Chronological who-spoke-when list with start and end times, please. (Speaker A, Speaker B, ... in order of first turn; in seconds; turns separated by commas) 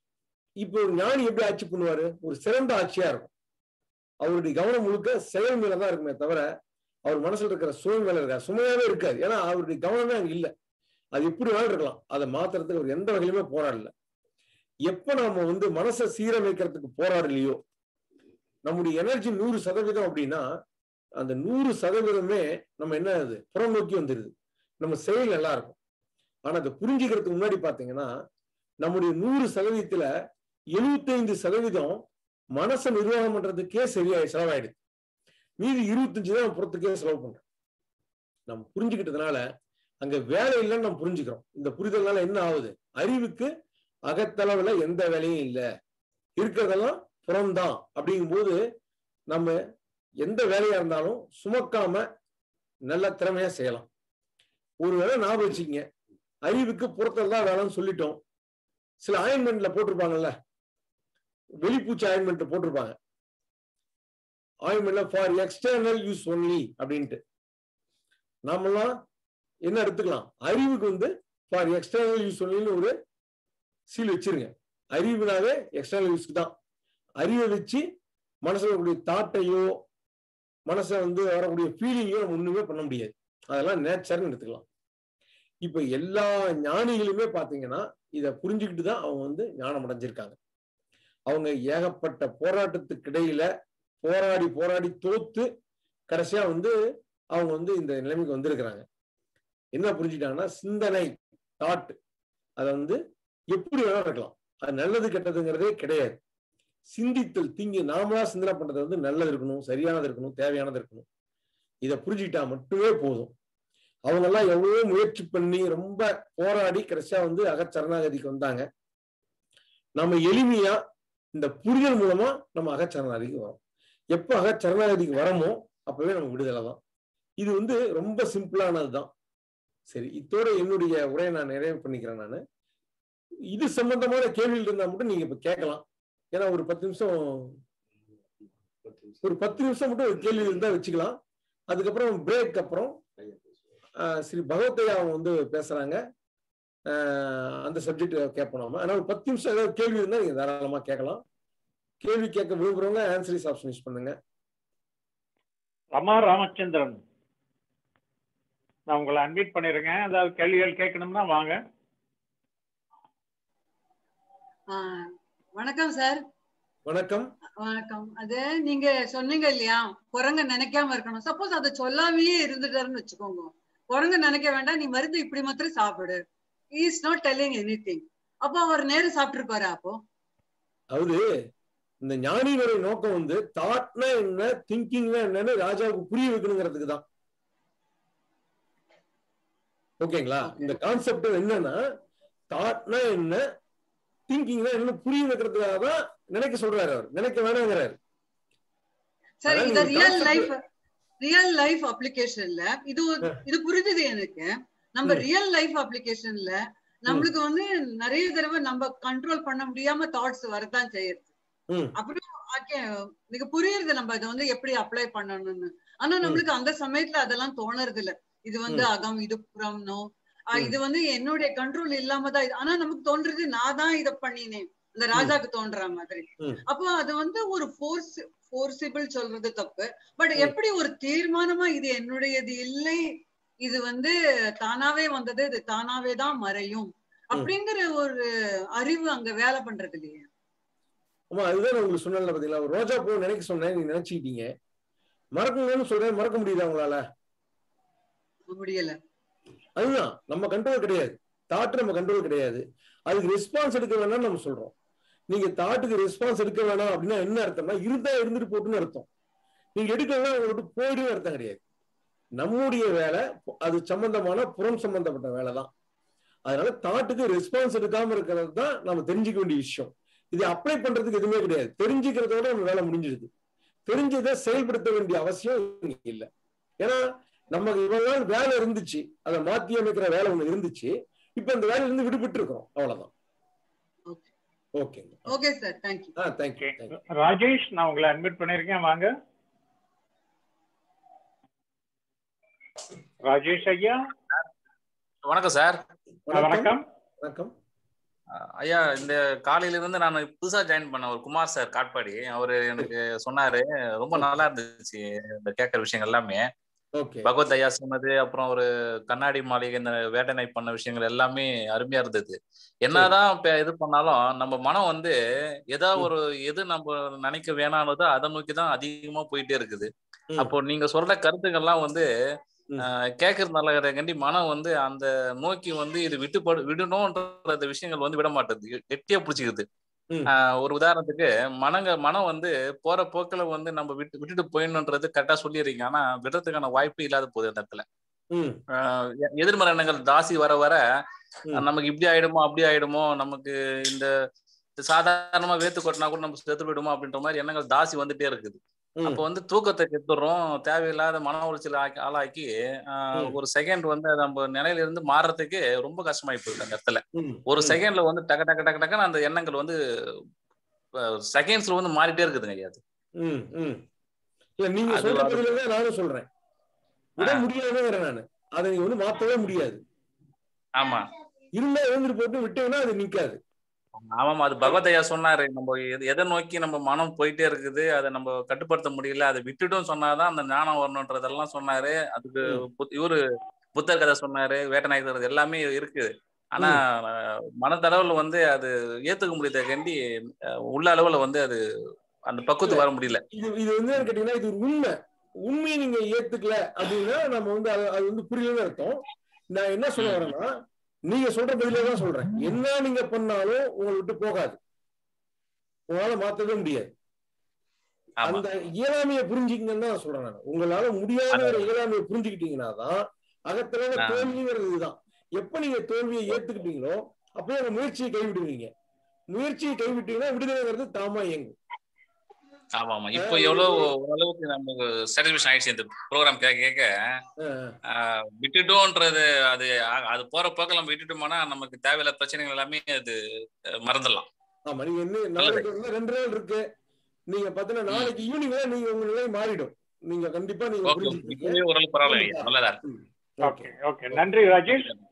Speaker A: 0.6-3.3, Speaker A: 4.2-6.5, Speaker A: 7.1-10.5, Speaker A: 11.2-13.9, Speaker A: 14.9-17.6, Speaker A: 18.6-20.4, Speaker A: 21.2-25.8, Speaker A: 26.4-28.1, Speaker A: 28.8-30.1, Speaker A: 30.8-32.0, Speaker A: 32.6-34.8, Speaker A: 35.6-37.4, Speaker A: 38.5-39.4, Speaker A: 40.0-43.5, Speaker A: 44.1-45.6, Speaker A: 46.4-48.6, Speaker A: 50.2-52.0, Speaker A: 52.9-53.9, Speaker A: 54.8-55.8, Speaker A: 56.5-58.2, Speaker A: 59.0-60.3, Speaker A: 61.6-63.0, Speaker A: 64.7-67.2, Speaker A: 68.5-68.9, Speaker A: 69.7-72.9, Speaker A: 73.9-76.5, Speaker A: 77.2-77.8, Speaker A: 78.4-79.7, Speaker A: 80.7-84.6, Speaker A: 85.6-90.3, Speaker A: 91.3-93.5, Speaker A: 94.0-95.5, Speaker A: 96.1-96.7, Speaker A: 97.3-98.8, Speaker A: 99.8-102.0, Speaker A: 102.6-103.0, Speaker A: 103.5-106.2, Speaker A: 106.9-111.0, Speaker A: 111.8-113.3, Speaker A: 114.1-118.6, Speaker A: 120.0-120.8, Speaker A: 121.3-123.6, Speaker A: 124.1-126.8, Speaker A: 127.4-129.1, Speaker A: 129.9-132.4, Speaker A: 133.5-137.6, Speaker A: 139.2-141.2, Speaker A: 141.7-143.0, Speaker A: 144.0-146.0, Speaker A: 146.9-151.2, Speaker A: 152.0-154.2, Speaker B: 155.9-157.0, Speaker B: 158.9-161.6, Speaker C: 164.7-166.2, Speaker A: 166.9-167.3, Speaker C: 167.6-176.2, Speaker C: 176.8-180.0, Speaker A: 180.9-181.2, Speaker A: 182.0-187.0, Speaker A: 190.0-191.8, Speaker A: 192.5-193.4, Speaker A: 194.3-197.9, Speaker C: 199.4-200.5, Speaker A: 199.5-200.5, Speaker C: 201.2-211.3, Speaker A: 211.7-211.9, Speaker C: 212.0-233.0, Speaker C: 233.6-238.2, Speaker C: 238.8-240.3, Speaker A: 241.3-244.5, Speaker A: 245.4-247.0, Speaker C: 248.5-249.0, Speaker A: 249.8-254.7, Speaker A: 255.3-259.1, Speaker A: 259.8-261.6, Speaker A: 262.4-265.7, Speaker A: 266.5-273.3, Speaker A: 273.9-276.3, Speaker A: 276.8-283.1, Speaker A: 284.8-285.3, Speaker C: 285.3-286.1, Speaker A: 286.1-286.9, Speaker B: 286.6-289.1, Speaker B: 293.2-294.0, Speaker D: 295.2-295.8, Speaker A: 296.3-297.5, Speaker B: 296.3-296.8, Speaker D: 298.6-306.4, Speaker A: 307.0-307.3, Speaker D: 307.2-315.1, Speaker D: 315.7-322.1, Speaker D: 322.8-329.6, Speaker D: 330.3-337.8, Speaker A: 338.3-338.6, Speaker D: 338.7-340.8, Speaker D: 341.6-344.1, Speaker D: 344.8-359.7, Speaker A: 357.1-357.8, Speaker D: 361.0-362.8, Speaker A: 363.2-363.8, Speaker A: 364.6-366.3, Speaker D: 364.9-365.5, Speaker A: 367.2-369.8, Speaker D: 367.2-367.4, Speaker D: 370.7-371.1, Speaker A: 371.6-373.4, Speaker D: 374.2-383.2, Speaker D: 383.7-390.0, Speaker D: 390.7-391.6, Speaker D: 392.3-393.2, Speaker A: 392.6-404.6, Speaker D: 400.0-400.2, Speaker A: 405.9-406.9, Speaker A: 408.2-418.7, Speaker D: 411.3-411.6, Speaker D: 414.0-414.3, Speaker A: 419.3-421.5, Speaker D: 422.8-426.9, Speaker A: 423.1-423.9, Speaker A: 427.4-427.8, Speaker D: 427.9-433.2, Speaker D: 433.9-434.2, Speaker A: 434.7-436.6, Speaker D: 435.4-435.7, Speaker A: 437.3-444.2, Speaker D: 440.8-442.8, Speaker B: 443.5-444.9, Speaker D: 444.7-445.0